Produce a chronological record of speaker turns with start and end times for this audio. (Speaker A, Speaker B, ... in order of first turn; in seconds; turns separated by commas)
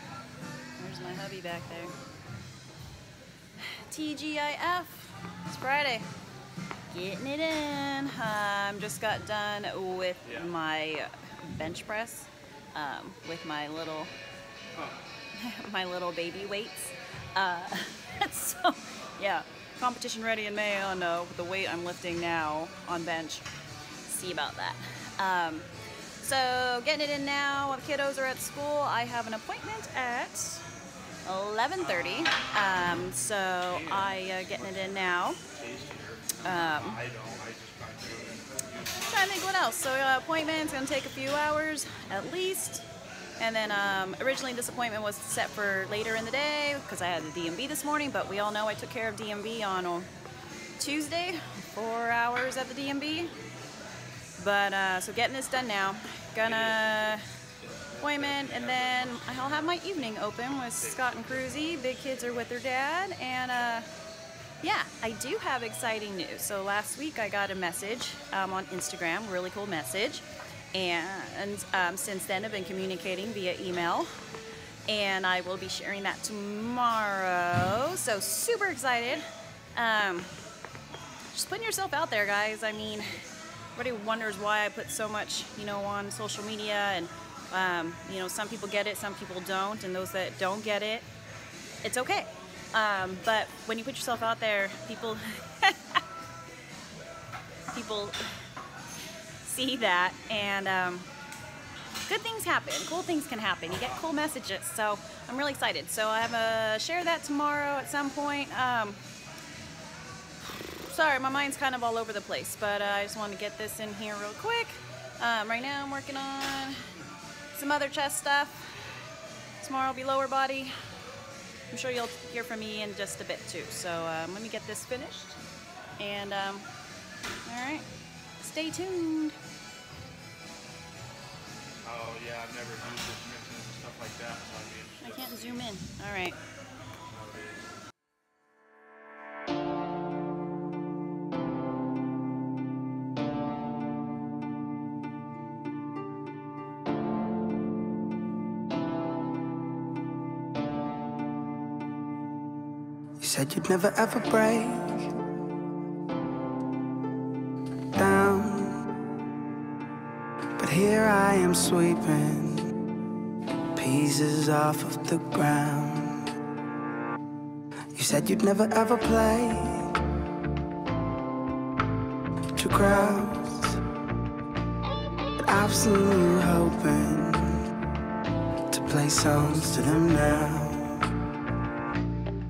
Speaker A: 0.8-1.9, Speaker A: 3.6-6.1, Speaker A: 6.9-14.1, Speaker B: 10.3-10.5, Speaker A: 15.4-23.5, Speaker A: 24.1-25.7, Speaker A: 26.2-30.6, Speaker A: 31.3-35.4, Speaker B: 31.8-32.3, Speaker B: 33.7-39.3, Speaker A: 36.4-37.0, Speaker A: 39.1-42.9, Speaker A: 43.4-50.1, Speaker A: 50.8-53.3, Speaker A: 54.4-57.2, Speaker B: 56.4-56.9, Speaker B: 57.6-60.0, Speaker A: 58.0-63.9, Speaker B: 60.7-61.8, Speaker A: 64.6-74.1, Speaker A: 74.9-80.3, Speaker A: 81.3-83.1, Speaker A: 83.8-91.1, Speaker A: 91.8-96.0, Speaker A: 97.7-98.2, Speaker A: 99.4-101.1, Speaker A: 102.1-109.0, Speaker A: 110.8-116.8, Speaker A: 117.5-118.6, Speaker A: 119.6-120.7, Speaker A: 121.7-125.4, Speaker A: 126.0-126.7, Speaker A: 127.5-127.8, Speaker A: 128.4-129.3, Speaker B: 131.8-135.7, Speaker A: 135.0-136.4, Speaker B: 137.1-137.7, Speaker C: 153.2-155.1, Speaker C: 157.9-158.8, Speaker C: 160.6-162.7, Speaker C: 163.7-166.3, Speaker C: 167.9-169.9, Speaker C: 172.6-173.8, Speaker C: 175.4-177.7, Speaker C: 178.7-181.0